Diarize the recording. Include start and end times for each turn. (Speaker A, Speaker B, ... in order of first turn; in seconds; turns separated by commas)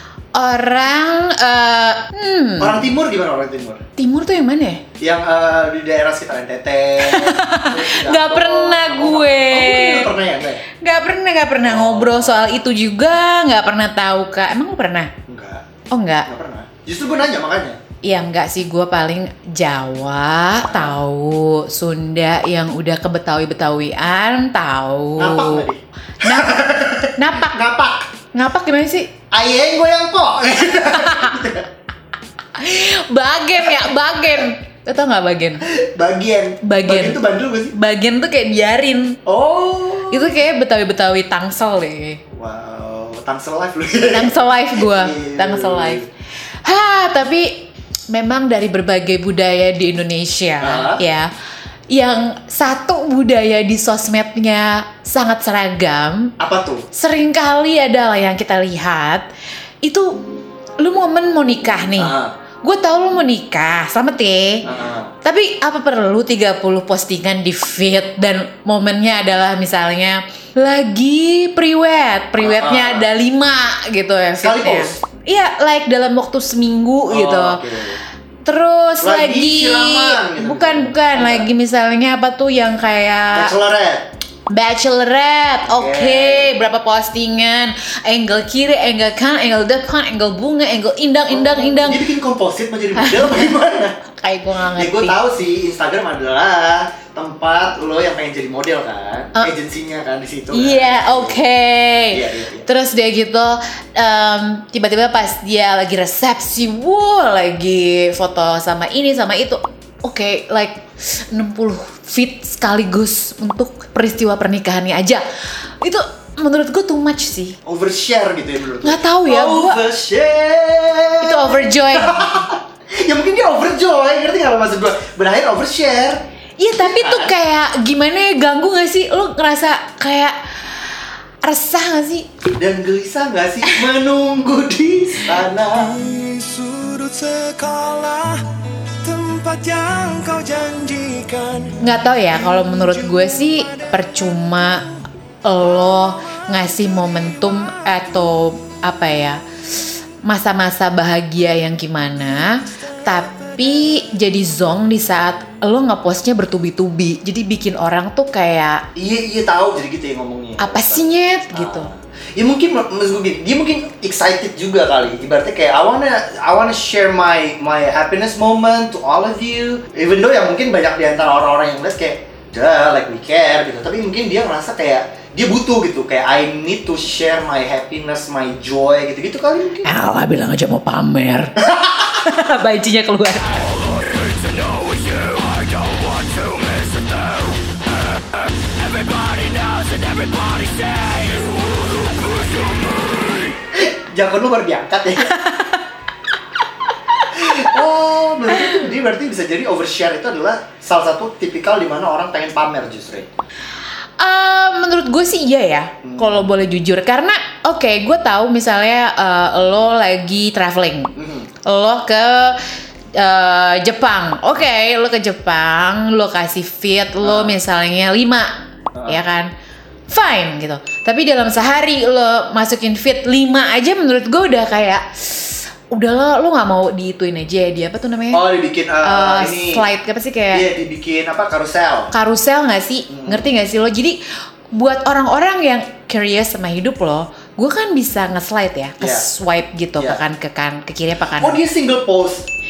Speaker A: 0.3-2.8, Speaker B: 2.6-3.8, Speaker A: 4.0-4.8, Speaker B: 5.0-10.7, Speaker A: 7.1-10.1, Speaker A: 10.8-15.1, Speaker B: 11.6-12.5, Speaker B: 15.3-15.7, Speaker A: 15.9-16.2, Speaker B: 16.3-17.8, Speaker A: 18.0-25.7, Speaker B: 20.5-21.0, Speaker B: 25.2-28.1, Speaker A: 26.2-26.6, Speaker A: 27.2-27.6, Speaker A: 28.3-29.1, Speaker B: 29.3-31.7, Speaker A: 30.9-31.4, Speaker A: 32.6-35.6, Speaker B: 35.6-37.7, Speaker A: 36.6-37.2, Speaker A: 37.7-39.2, Speaker B: 39.2-40.4, Speaker A: 40.1-42.2, Speaker B: 42.3-46.1, Speaker A: 44.1-46.0, Speaker A: 46.6-51.3, Speaker B: 50.6-51.0, Speaker A: 51.9-56.3, Speaker B: 56.4-56.8, Speaker A: 56.9-59.3, Speaker A: 59.8-60.2, Speaker A: 60.8-64.6, Speaker B: 62.0-62.4, Speaker B: 64.6-65.1, Speaker A: 65.2-77.6, Speaker B: 72.4-73.1, Speaker B: 74.3-75.0, Speaker B: 77.1-78.0, Speaker A: 78.4-83.5, Speaker B: 79.0-81.5, Speaker B: 83.3-84.1, Speaker A: 84.5-92.0, Speaker B: 85.6-86.6, Speaker B: 91.3-94.0, Speaker A: 92.9-93.3, Speaker A: 94.1-95.2, Speaker B: 94.7-101.4, Speaker A: 100.5-117.5, Speaker B: 102.1-102.7, Speaker B: 117.6-126.2, Speaker A: 118.8-119.8, Speaker A: 121.2-122.3, Speaker A: 126.6-132.2, Speaker B: 126.8-127.3, Speaker B: 132.6-136.3, Speaker C: 136.1-138.4, Speaker C: 139.0-141.8, Speaker A: 141.8-144.9, Speaker A: 145.4-158.8, Speaker B: 158.9-179.9, Speaker A: 160.6-161.9, Speaker A: 179.8-181.5, Speaker A: 182.1-183.5, Speaker B: 193.7-195.3, Speaker B: 197.2-203.3, Speaker A: 204.2-211.1, Speaker B: 206.0-206.6, Speaker B: 211.2-211.5, Speaker A: 211.6-218.5, Speaker B: 217.2-217.6, Speaker B: 218.9-219.2, Speaker A: 219.1-219.5, Speaker A: 220.1-228.4, Speaker B: 228.3-229.8, Speaker A: 229.0-230.6, Speaker B: 230.5-232.1, Speaker A: 232.1-234.2, Speaker B: 233.1-233.5, Speaker A: 234.7-241.6, Speaker B: 239.0-239.2, Speaker B: 241.3-242.5